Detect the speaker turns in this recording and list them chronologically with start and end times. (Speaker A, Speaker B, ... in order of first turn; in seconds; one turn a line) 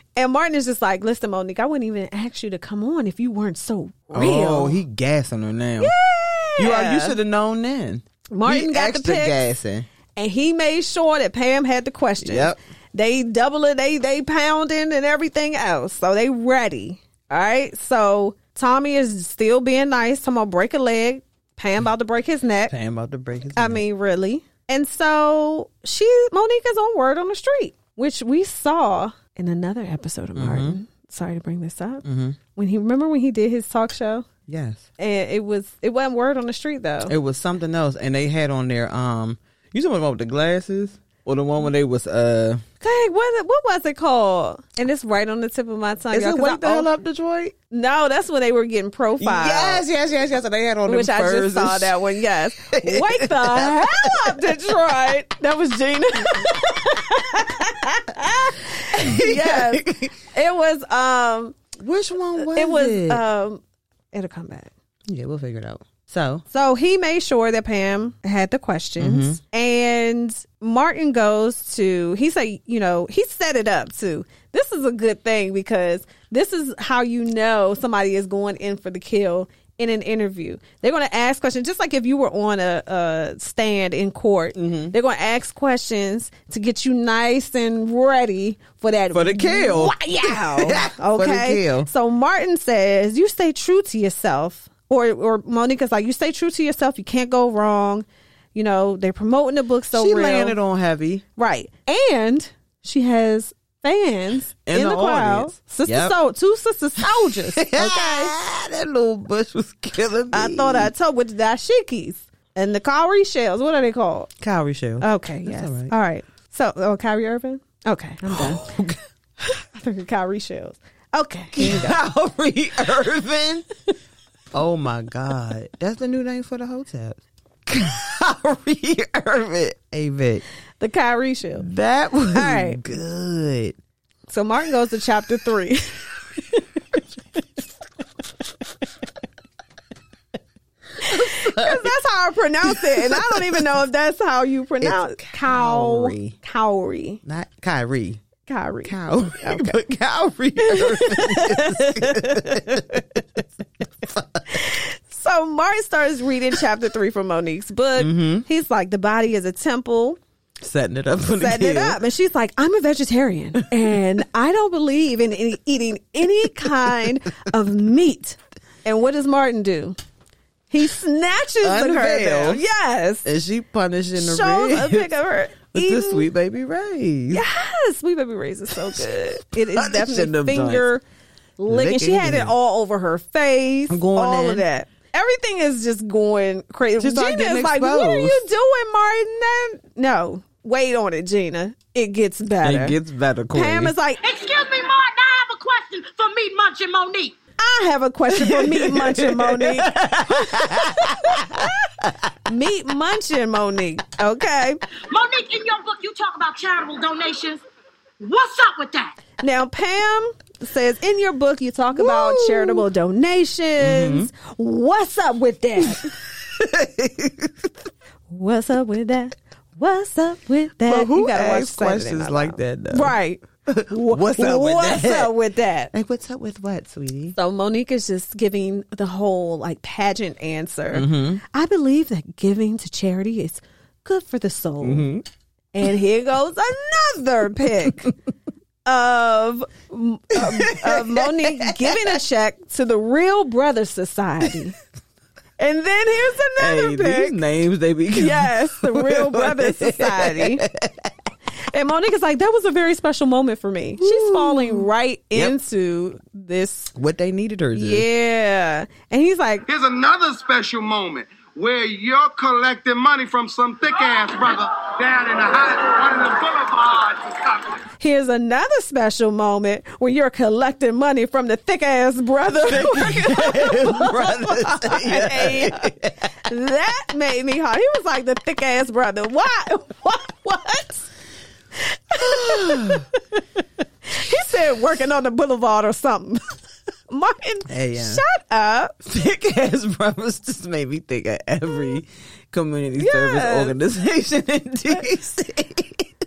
Speaker A: 0.2-4.8
Speaker B: 4.1-5.9
Speaker A: 5.8-7.2
Speaker B: 6.6-9.9
Speaker A: 8.3-9.4
Speaker A: 10.2-22.7
Speaker B: 12.2-12.6
Speaker B: 22.7-23.9
Speaker A: 23.6-32.0
Speaker B: 30.4-30.8
Speaker B: 32.0-32.4
Speaker A: 32.5-34.3
Speaker B: 34.5-34.9
Speaker A: 35.0-37.1
Speaker B: 37.1-42.6
Speaker A: 42.8-46.9
Speaker B: 46.1-47.5
Speaker A: 47.7-49.8
Speaker B: 49.2-54.5
Speaker A: 50.9-61.6
Speaker B: 58.8-60.1
Speaker B: 61.8-63.2
Speaker A: 62.4-64.7
Speaker B: 65.1-66.4
Speaker A: 66.5-100.6
Speaker B: 69.0-69.4
Speaker B: 84.6-85.0
Speaker B: 89.1-91.9
Speaker B: 99.9-101.2
Speaker A: 101.4-108.4
Speaker B: 104.7-106.2
Speaker B: 107.0-110.9
Speaker A: 110.3-114.3
Speaker B: 114.4-115.9
Speaker A: 115.0-118.7
Speaker B: 118.3-119.0
Speaker A: 119.4-122.0
Speaker B: 121.6-123.7
Speaker B: 124.5-130.4
Speaker A: 130.8-131.7
Speaker B: 131.6-133.8
Speaker A: 132.3-132.8
Speaker A: 134.3-137.0
Speaker A: 141.0-147.2
Speaker B: 141.0-141.9
Speaker B: 142.6-143.6
Speaker B: 144.8-146.4
Speaker B: 147.2-148.2
Speaker A: 148.5-149.8
Speaker B: 148.8-153.2
Speaker A: 150.6-153.0
Speaker B: 154.0-154.6
Speaker A: 154.5-160.2
Speaker B: 158.0-158.5
Speaker B: 160.6-162.0
Speaker A: 161.3-170.0
Speaker A: 170.7-173.3
Speaker B: 171.6-172.6
Speaker B: 173.2-175.1
Speaker A: 174.2-176.3
Speaker B: 175.7-177.4
Speaker A: 177.3-181.0
Speaker B: 179.7-180.8
Speaker A: 181.6-193.0
Speaker B: 181.7-182.5
Speaker B: 183.9-184.7
Speaker B: 187.0-188.4
Speaker B: 192.6-193.9
Speaker A: 193.5-194.2
Speaker C: 194.2-197.3
Speaker A: 197.6-201.9
Speaker B: 198.3-202.3
Speaker A: 202.4-204.8
Speaker C: 205.1-207.6
Speaker C: 208.2-209.1
Speaker A: 209.4-216.1
Speaker B: 211.9-212.8
Speaker B: 213.8-214.3
Speaker B: 215.8-217.7
Speaker A: 218.3-225.9
Speaker B: 220.8-223.2
Speaker B: 223.7-225.3
Speaker B: 225.9-227.4
Speaker A: 227.4-235.1
Speaker B: 230.9-231.4
Speaker B: 234.8-235.2
Speaker A: 235.7-238.1
Speaker A: 238.8-244.8
Speaker B: 240.3-242.2
Speaker A: 245.6-247.4
Speaker B: 246.6-251.1
Speaker A: 248.1-250.6
Speaker A: 251.7-256.9
Speaker B: 254.0-255.6
Speaker B: 256.9-258.1
Speaker A: 257.7-259.7
Speaker D: 259.7-267.8
Speaker A: 268.0-281.1
Speaker B: 272.6-276.3
Speaker A: 281.8-283.4
Speaker B: 282.2-283.1
Speaker A: 284.1-286.5
Speaker A: 287.1-289.0
Speaker B: 287.7-288.2
Speaker B: 289.0-296.1
Speaker A: 293.0-293.8